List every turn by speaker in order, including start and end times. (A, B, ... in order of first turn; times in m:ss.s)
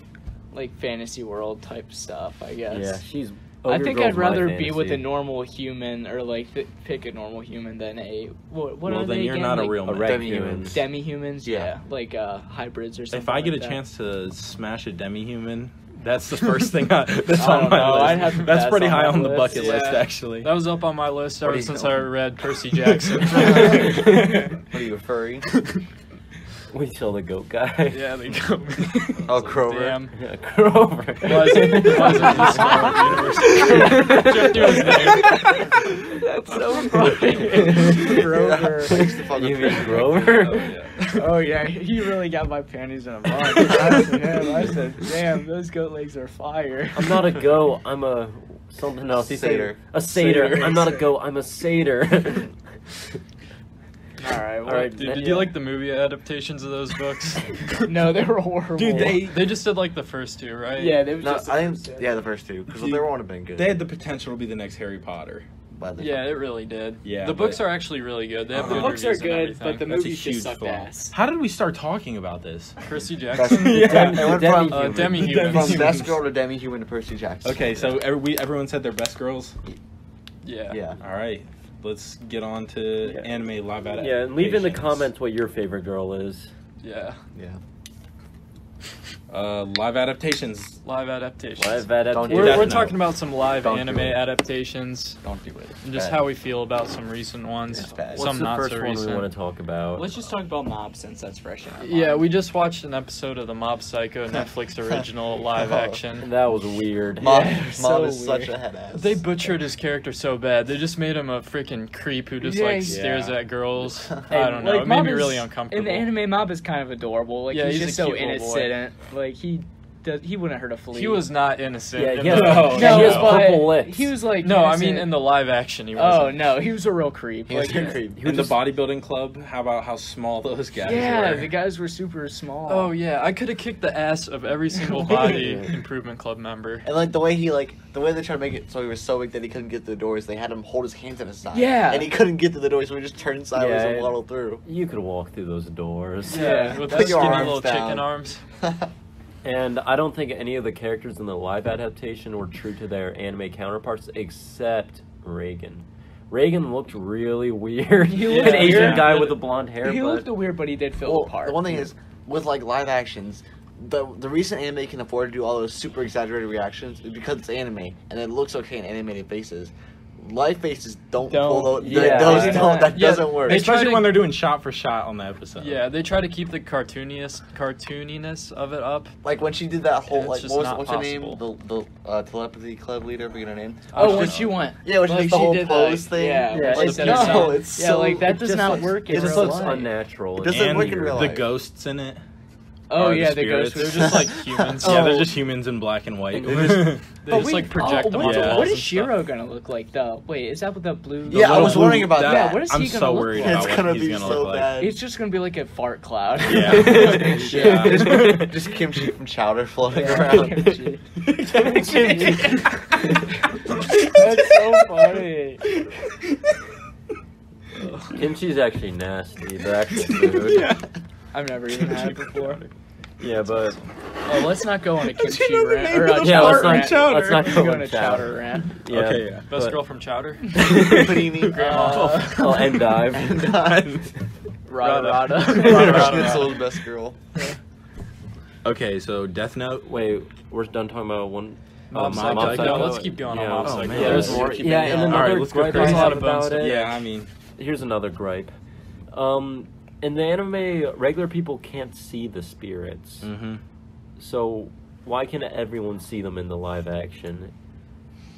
0:00.5-0:03.0 A
0:02.7-0:05.0 B
0:03.6-0:09.9 A
0:08.8-0:10.6 C
0:09.8-0:10.8 B
0:10.0-0:10.8 D
0:10.7-0:13.8 A
0:11.4-0:11.7 D
0:13.1-0:20.5 C
0:17.3-0:19.9 A
0:19.5-0:24.1 E
0:21.5-0:21.9 B
0:22.9-0:24.6 C
0:23.4-0:24.0 D
0:24.7-0:25.5 D
0:26.7-0:28.0 B
0:27.9-0:30.1 E
0:29.2-0:30.0 D
0:30.1-0:32.9 B
0:31.2-0:35.6 E
0:31.8-0:32.8 A
0:33.6-0:34.2 A
0:33.6-0:35.0 B
0:34.9-0:35.3 A
0:36.0-0:39.1 A
0:38.1-0:40.6 D
0:38.9-0:40.7 B
0:40.4-0:41.1 C
0:41.1-0:47.3 A
0:46.9-0:52.5 B
0:49.1-0:49.8 D
0:50.3-0:51.0 A
0:54.2-0:55.4 A
0:54.6-0:55.5 B
0:54.9-0:57.9 E
0:57.8-0:59.3 A
0:58.8-0:59.5 C
0:59.0-1:01.0 E
1:00.7-1:02.2 A
1:01.2-1:03.8 D
1:02.7-1:05.5 C
1:05.7-1:06.2 D
1:06.0-1:09.9 E
1:07.0-1:07.7 C
1:08.5-1:09.0 C
1:08.6-1:11.2 A
1:09.8-1:12.8 C
1:12.8-1:13.9 E
1:13.3-1:18.0 D
1:13.4-1:14.6 C
1:13.6-1:15.3 B
1:14.7-1:16.0 E
1:15.2-1:16.2 C
1:17.4-1:19.6 C
1:20.4-1:20.8 E
1:20.7-1:21.0 D
1:21.0-1:25.1 C
1:23.8-1:26.5 B
1:26.8-1:27.2 E
1:27.3-1:27.6 D
1:29.3-1:30.8 C
1:30.8-1:35.2 E
1:31.6-1:32.9 B
1:32.1-1:32.9 D
1:32.3-1:33.0 C
1:33.6-1:34.2 D
1:35.2-1:36.2 D
1:35.8-1:39.3 E
1:37.7-1:38.3 D
1:38.1-1:40.1 B
1:39.9-1:42.3 A
1:41.8-1:46.3 E
1:45.5-1:46.0 D
1:46.2-1:47.4 B
1:47.2-1:49.2 D
1:47.2-1:48.5 A
1:48.9-1:56.1 E
1:52.4-1:53.0 A
1:52.9-1:53.4 B
1:53.9-1:54.2 D
1:54.3-2:01.3 A
1:57.5-1:58.7 E
2:00.9-2:03.4 E
2:02.0-2:04.1 B
2:02.3-2:03.5 C
2:02.6-2:05.3 A
2:04.4-2:06.6 E
2:05.9-2:08.1 A
2:07.5-2:08.5 D
2:08.2-2:08.6 B
2:08.2-2:11.5 C
2:10.8-2:12.9 A
2:12.7-2:16.9 E
2:14.9-2:15.2 A
2:15.1-2:15.7 B
2:16.8-2:24.6 D
2:21.5-2:22.1 A
2:23.5-2:26.7 B
2:26.3-2:28.4 E
2:26.3-2:27.2 A
2:26.4-2:28.1 D
2:28.6-2:28.9 D
2:29.4-2:40.3 B
2:38.0-2:41.6 A
2:38.3-2:38.9 E
2:38.4-2:39.3 C
2:41.0-2:53.7 D
2:51.3-2:53.1 A
2:51.8-2:52.9 B
2:52.9-2:54.3 E
2:53.2-2:55.8 C
2:55.6-2:59.1 E
2:59.2-3:09.7 D
3:00.1-3:01.4 E
3:03.9-3:04.5 E
3:03.9-3:09.9 A
3:06.5-3:07.6 B
3:06.8-3:07.6 E
3:08.3-3:11.0 B
3:10.4-3:11.5 D
3:10.4-3:12.2 C
3:12.9-3:14.3 A
3:12.9-3:17.5 C
3:13.7-3:15.3 E
3:14.4-3:15.3 D
3:16.3-3:16.8 B
3:16.4-3:17.0 D
3:17.2-3:19.2 E
3:17.2-3:23.8 A
3:18.1-3:18.8 C
3:21.3-3:24.9 C
3:21.3-3:22.6 D
3:23.3-3:24.9 D
3:24.8-3:28.2 A
3:26.4-3:28.6 C
3:26.7-3:28.1 B
3:27.4-3:30.8 D
3:29.9-3:31.0 A
3:31.2-3:35.1 C
3:31.7-3:32.7 A
3:34.1-3:35.6 A
3:35.8-3:36.5 C
3:38.1-3:40.7 B
3:40.0-3:40.8 C
3:41.3-3:42.6 A
3:41.8-3:42.6 C
3:43.2-3:43.8 B
3:44.2-3:48.8 A
3:45.0-3:47.7 C
3:46.2-3:49.8 B
3:48.8-3:49.5 C
3:49.5-3:50.8 E
3:50.6-3:52.3 C
3:50.6-3:51.0 B
3:50.7-3:52.0 D
3:51.5-3:52.8 E
3:51.5-3:52.5 A
3:52.2-3:53.6 B
3:53.1-3:54.0 D
3:53.4-3:54.1 C
3:54.7-3:56.5 A
3:54.8-3:56.6 E
3:55.5-3:57.2 D
3:55.6-3:56.3 C
3:58.6-3:59.9 C
3:59.8-4:07.0 B
4:01.9-4:07.3 C
4:01.9-4:06.8 E
4:04.0-4:05.4 D
4:04.0-4:05.0 A
4:07.6-4:08.5 B
4:09.1-4:13.3 B
4:13.2-4:13.6 C
4:14.2-4:17.5 B